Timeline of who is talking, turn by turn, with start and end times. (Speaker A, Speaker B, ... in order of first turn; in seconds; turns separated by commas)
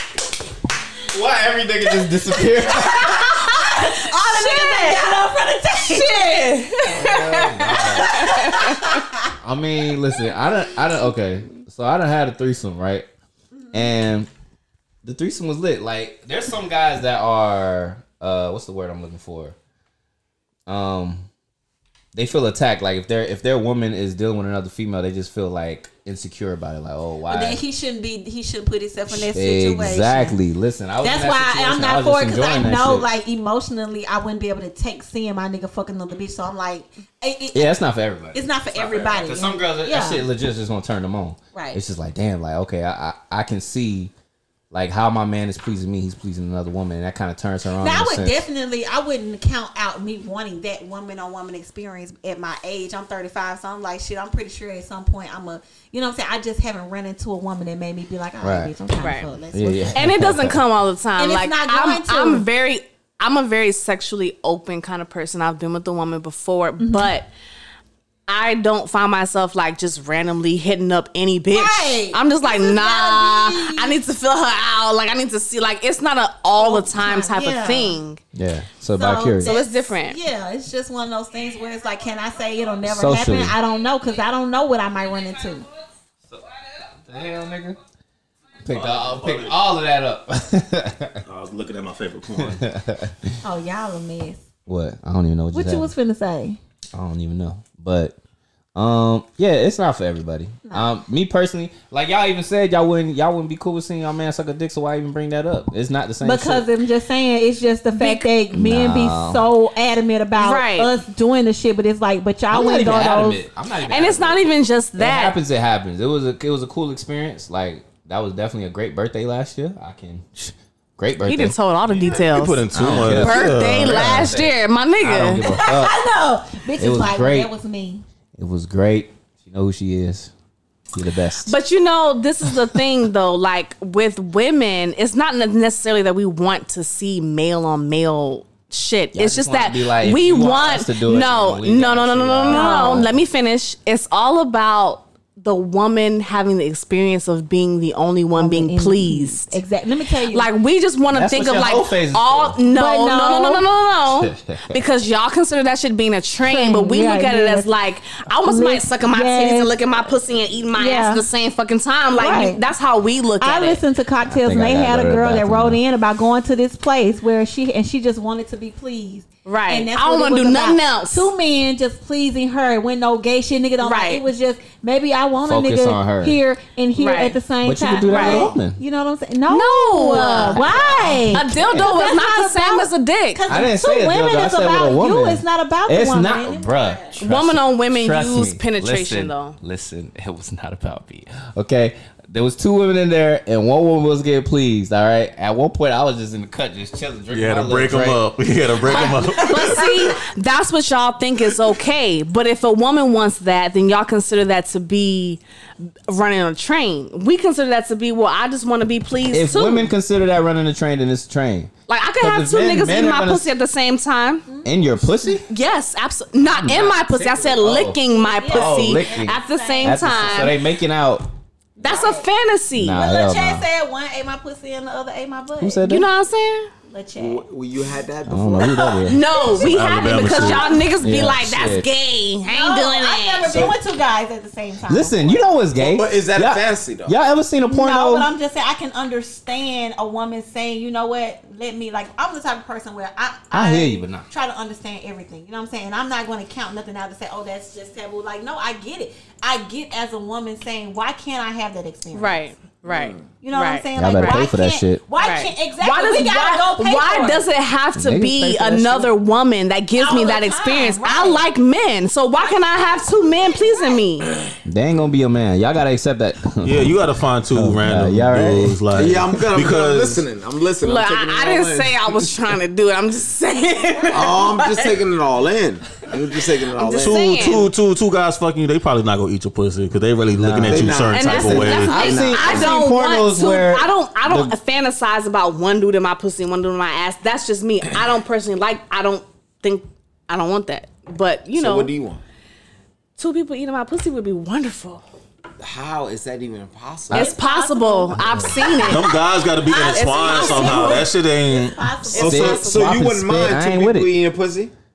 Speaker A: 1.1-3.4, Speaker B: 3.0-6.5, Speaker C: 3.0-5.3, Speaker C: 5.8-9.0, Speaker A: 6.9-8.1, Speaker B: 7.6-9.3, Speaker A: 9.4-13.1, Speaker B: 13.5-13.9, Speaker A: 13.7-14.3, Speaker A: 15.0-19.6, Speaker A: 20.7-21.3, Speaker A: 22.1-27.6, Speaker B: 27.3-30.4, Speaker A: 29.1-33.1, Speaker B: 31.0-37.7, Speaker A: 37.5-44.1, Speaker B: 38.3-40.2, Speaker B: 41.5-41.8, Speaker A: 44.7-48.4, Speaker B: 47.8-60.1, Speaker A: 58.4-58.7, Speaker C: 59.0-59.3, Speaker A: 59.5-60.6, Speaker C: 59.9-67.3, Speaker B: 61.2-62.5, Speaker B: 66.8-67.1, Speaker C: 68.3-78.2, Speaker B: 71.5-74.0, Speaker B: 76.6-78.0, Speaker A: 78.3-79.5, Speaker B: 79.0-85.7, Speaker C: 79.4-80.2, Speaker A: 82.8-83.6, Speaker A: 87.1-87.8, Speaker A: 88.6-91.2, Speaker D: 88.7-89.6, Speaker D: 91.2-92.7, Speaker A: 92.3-93.3, Speaker B: 93.4-94.4, Speaker A: 94.7-95.9, Speaker B: 95.5-96.6, Speaker A: 97.0-98.2, Speaker A: 98.8-106.7, Speaker B: 106.2-113.4, Speaker C: 107.9-108.3, Speaker A: 108.5-109.5, Speaker C: 110.4-110.9, Speaker A: 112.5-121.6, Speaker C: 113.9-115.4, Speaker C: 121.3-125.5, Speaker D: 122.1-124.1, Speaker A: 122.7-126.0, Speaker B: 125.4-128.0, Speaker A: 126.8-127.5, Speaker A: 128.4-130.3, Speaker A: 130.9-131.6, Speaker C: 131.4-149.6, Speaker A: 139.1-143.1, Speaker B: 142.5-143.1, Speaker B: 148.3-150.5, Speaker C: 150.3-163.8, Speaker A: 151.1-152.6, Speaker B: 152.7-153.6, Speaker A: 154.1-154.8, Speaker B: 156.4-157.7, Speaker B: 158.5-159.8, Speaker B: 160.8-161.2, Speaker B: 162.2-162.6, Speaker B: 163.4-187.1, Speaker A: 164.2-165.8, Speaker C: 169.4-171.3, Speaker C: 173.8-174.2, Speaker A: 175.5-176.4, Speaker C: 177.0-177.4, Speaker A: 177.6-178.8, Speaker C: 178.1-178.5, Speaker C: 179.5-183.7, Speaker A: 180.1-182.0, Speaker A: 183.5-198.2, Speaker C: 187.2-189.6, Speaker D: 197.3-199.9, Speaker C: 198.8-205.4, Speaker C: 206.1-209.9, Speaker A: 209.3-213.5, Speaker C: 211.9-214.5, Speaker B: 214.5-214.7, Speaker A: 214.7-215.5, Speaker C: 215.5-220.6, Speaker A: 216.5-221.3, Speaker B: 218.1-220.6, Speaker C: 221.8-223.0, Speaker B: 221.8-222.3, Speaker A: 222.8-223.7, Speaker B: 222.9-225.8, Speaker A: 225.6-226.1, Speaker C: 225.8-226.7, Speaker B: 226.9-227.4, Speaker E: 227.2-229.0, Speaker A: 228.3-229.2, Speaker C: 229.0-233.7, Speaker B: 229.3-231.0, Speaker D: 229.5-230.7, Speaker A: 231.0-231.9, Speaker B: 232.5-235.5, Speaker A: 234.9-238.3, Speaker E: 235.8-237.1, Speaker B: 237.7-252.4, Speaker A: 243.5-244.3, Speaker C: 252.1-254.5, Speaker E: 252.8-253.2, Speaker B: 253.4-257.4, Speaker A: 254.0-255.0, Speaker C: 255.2-264.3, Speaker A: 258.0-259.1, Speaker B: 260.0-261.4, Speaker B: 262.4-264.0, Speaker A: 264.6-269.0, Speaker D: 266.6-270.2, Speaker E: 268.9-272.3, Speaker C: 270.8-274.9, Speaker E: 274.1-277.5, Speaker C: 276.7-277.7, Speaker D: 277.0-282.1, Speaker A: 280.4-281.0, Speaker E: 280.6-282.7, Speaker C: 281.1-291.9, Speaker A: 281.9-284.5, Speaker E: 291.6-292.2, Speaker C: 293.2-295.0, Speaker E: 295.6-297.3, Speaker C: 297.1-299.1, Speaker B: 297.1-298.9, Speaker D: 298.9-301.8, Speaker B: 299.6-302.6, Speaker C: 299.9-301.1, Speaker C: 302.1-302.9, Speaker E: 302.1-304.7, Speaker A: 302.2-304.1